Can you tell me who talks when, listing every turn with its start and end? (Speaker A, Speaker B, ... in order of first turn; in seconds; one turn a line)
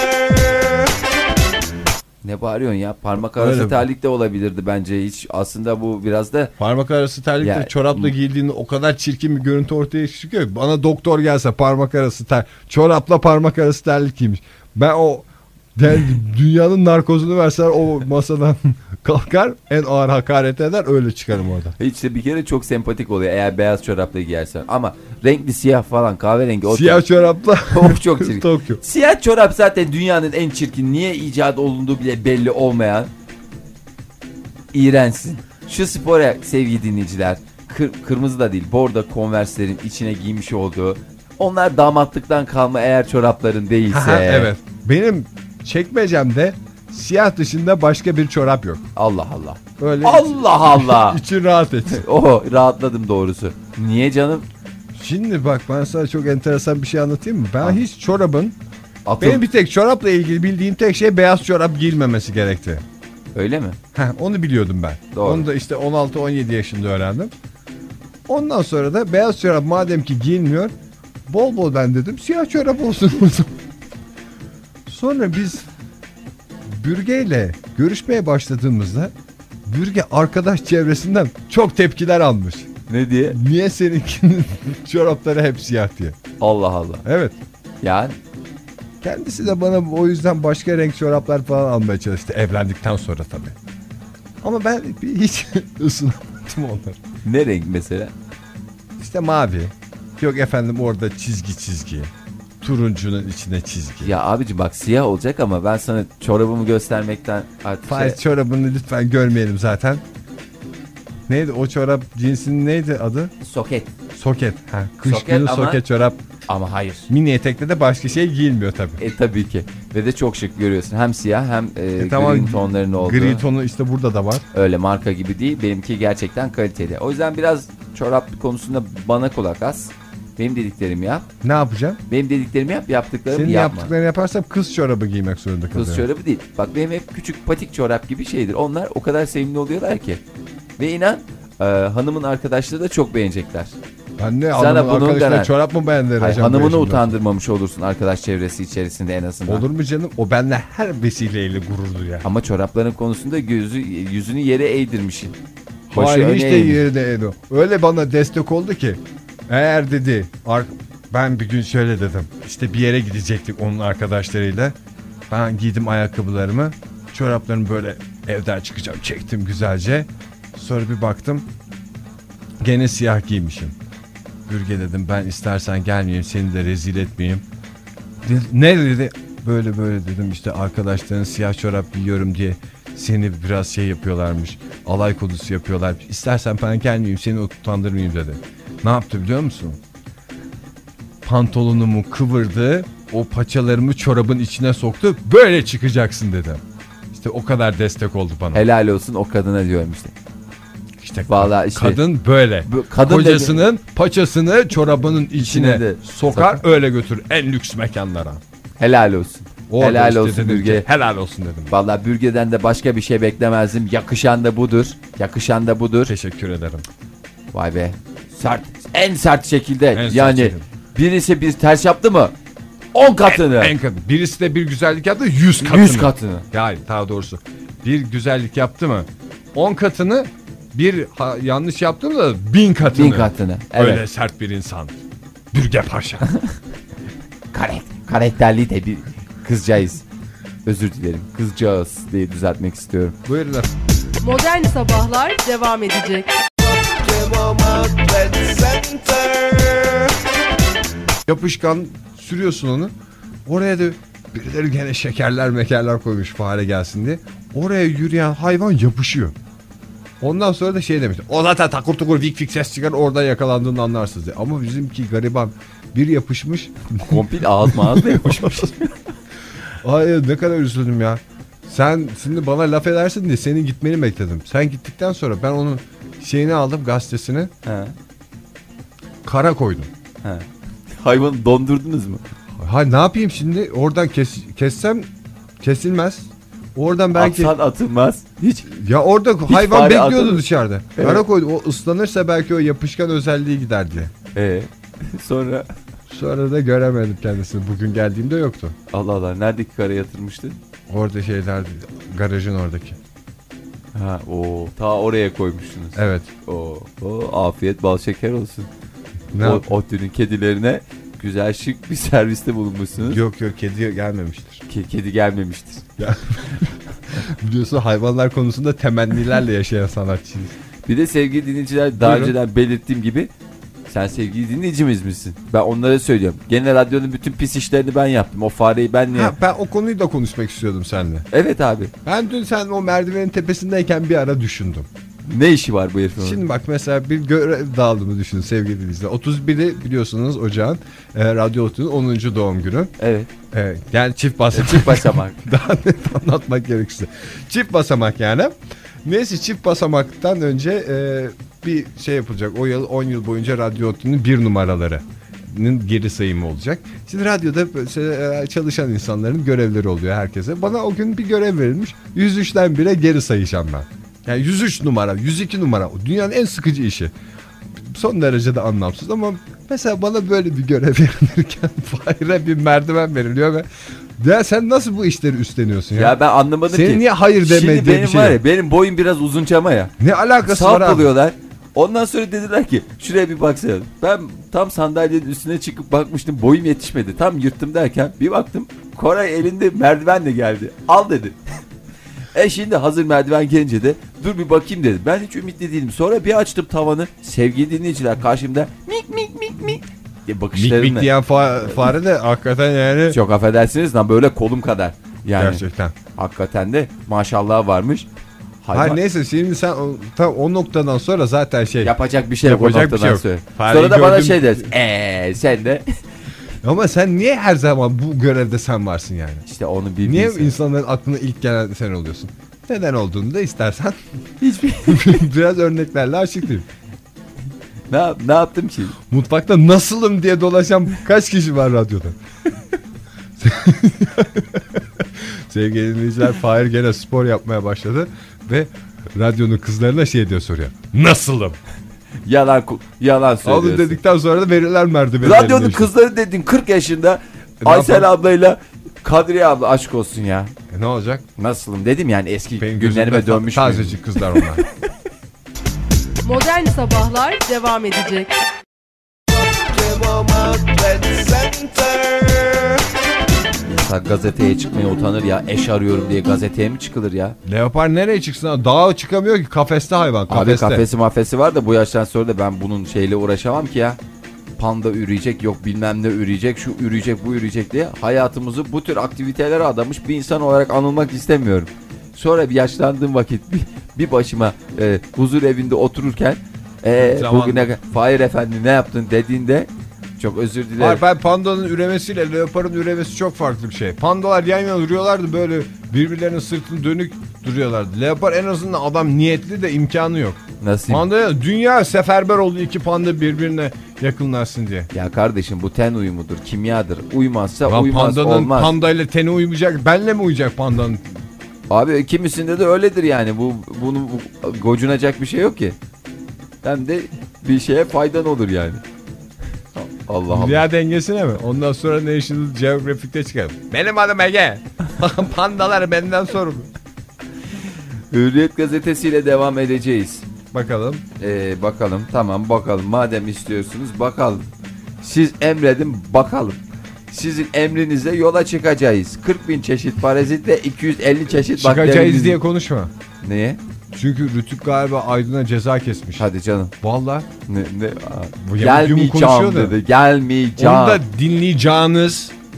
Speaker A: 2.2-6.5
Speaker B: 3.3-3.8
Speaker B: 6.6-21.8
Speaker A: 7.4-8.1
Speaker A: 21.8-27.0
Speaker B: 26.6-28.8
Speaker A: 27.7-33.1
Speaker A: 34.7-44.5
Speaker B: 43.9-48.9
Speaker A: 49.0-51.2
Speaker B: 49.8-52.0
Speaker A: 51.9-54.5
Speaker B: 54.9-58.5
Speaker A: 59.0-59.4
Speaker B: 59.2-62.8
Speaker A: 63.3-63.8
Speaker B: 63.9-67.3
Speaker A: 65.1-65.4
Speaker B: 68.3-70.7
Speaker B: 71.2-73.5
Speaker B: 74.8-75.7
Speaker B: 76.6-79.1
Speaker B: 79.7-82.7
Speaker A: 82.9-83.4
Speaker B: 83.3-86.2
Speaker A: 86.4-87.0
Speaker B: 87.0-87.3
Speaker A: 87.8-88.2
Speaker B: 89.0-93.5
Speaker B: 94.4-97.0
Speaker A: 97.2-98.1
Speaker B: 99.0-104.1
Speaker A: 104.0-108.2
Speaker B: 107.9-110.0
Speaker B: 111.3-113.3
Speaker A: 113.4-113.9
Speaker B: 114.1-116.2
Speaker A: 115.0-115.8
Speaker A: 116.5-117.1
Speaker B: 117.1-119.0
Speaker A: 119.0-123.4
Speaker B: 122.0-124.4
Speaker A: 124.5-131.2
Speaker B: 131.4-132.0
Speaker A: 132.1-133.9
Speaker B: 133.3-136.1
Speaker A: 135.7-140.2
Speaker A: 140.8-143.8
Speaker B: 144.2-147.1
Speaker A: 144.5-145.5
Speaker A: 146.2-149.7
Speaker B: 149.5-152.2
Speaker A: 152.2-155.3
Speaker B: 155.9-164.8
Speaker A: 155.9-156.8
Speaker B: 165.3-171.4
Speaker B: 172.6-173.7
Speaker B: 174.5-177.4
Speaker B: 178.2-189.8
Speaker B: 191.2-196.6
Speaker B: 197.1-198.6
Speaker A: 198.5-200.1
Speaker B: 201.0-208.4
Speaker A: 201.2-202.0
Speaker A: 202.7-203.6
Speaker A: 205.4-206.6
Speaker A: 208.8-210.8
Speaker B: 209.7-211.7
Speaker A: 211.7-216.1
Speaker B: 216.1-216.8
Speaker A: 217.5-222.3
Speaker B: 219.9-220.6
Speaker A: 222.9-223.7
Speaker B: 223.3-234.9
Speaker A: 225.6-226.4
Speaker A: 232.9-234.0
Speaker B: 235.5-236.3
Speaker A: 237.5-240.0
Speaker A: 240.6-243.2
Speaker B: 243.2-243.7
Speaker C: 244.2-246.3
Speaker B: 251.3-252.9
Speaker B: 253.4-259.3
Speaker B: 260.2-268.7
Speaker A: 267.1-269.0
Speaker B: 269.8-277.5
Speaker A: 277.6-277.9
Speaker B: 279.2-279.9
Speaker A: 280.2-282.2
Speaker B: 282.6-285.1
Speaker B: 285.6-287.5
Speaker A: 287.1-288.7
Speaker B: 288.7-294.1
Speaker A: 289.5-290.4
Speaker A: 290.9-291.2
Speaker A: 294.3-295.7
Speaker B: 296.1-298.8
Speaker A: 298.9-300.6
Speaker B: 300.9-303.0
Speaker A: 303.9-308.7
Speaker B: 305.9-306.3
Speaker B: 309.3-309.7
Speaker A: 309.4-313.2
Speaker B: 313.0-314.6
Speaker A: 314.7-315.9
Speaker B: 316.0-320.5
Speaker A: 320.9-323.3
Speaker B: 322.0-322.3
Speaker A: 323.9-329.3
Speaker B: 329.1-331.3
Speaker A: 331.3-331.9
Speaker B: 332.0-334.9
Speaker A: 335.2-336.4
Speaker B: 336.2-342.9
Speaker A: 343.0-343.3
Speaker B: 343.5-367.1
Speaker A: 344.5-345.4
Speaker B: 367.7-376.2
Speaker A: 375.9-379.9
Speaker B: 376.7-378.4
Speaker B: 380.0-381.1
Speaker A: 380.4-391.4
Speaker A: 392.3-401.1
Speaker B: 400.5-403.2
Speaker A: 403.1-405.6
Speaker B: 405.4-405.9
Speaker A: 406.1-408.1
Speaker A: 408.6-409.0
Speaker B: 408.7-411.9
Speaker A: 411.8-415.8
Speaker B: 412.4-414.7
Speaker B: 416.6-419.4
Speaker A: 419.4-420.6
Speaker B: 420.0-424.0
Speaker A: 424.4-425.2
Speaker B: 424.8-426.6
Speaker A: 427.9-428.9
Speaker B: 429.1-432.1
Speaker B: 433.4-441.6
Speaker A: 442.2-444.0
Speaker B: 443.4-445.9
Speaker A: 445.2-450.5
Speaker B: 447.6-448.1
Speaker B: 450.7-451.2
Speaker A: 451.4-454.5
Speaker B: 452.6-454.6
Speaker C: 456.2-458.3
Speaker A: 460.6-461.4
Speaker A: 463.7-467.4
Speaker B: 467.4-470.8
Speaker A: 470.3-474.0
Speaker A: 474.6-491.0
Speaker B: 487.0-487.7
Speaker B: 490.8-504.9
Speaker A: 500.6-501.1
Speaker A: 504.9-508.7
Speaker B: 507.6-511.1
Speaker A: 511.7-515.8
Speaker A: 516.6-518.8
Speaker A: 519.7-520.6
Speaker B: 520.3-526.7
Speaker A: 528.1-530.2
Speaker B: 530.5-531.0
Speaker A: 531.2-534.5
Speaker A: 535.0-536.6
Speaker A: 537.1-542.4
Speaker B: 541.4-542.9
Speaker A: 543.2-543.6
Speaker B: 543.9-546.2
Speaker A: 546.2-546.7
Speaker B: 546.8-547.3
Speaker A: 547.5-551.0
Speaker B: 548.4-549.8
Speaker B: 550.6-552.3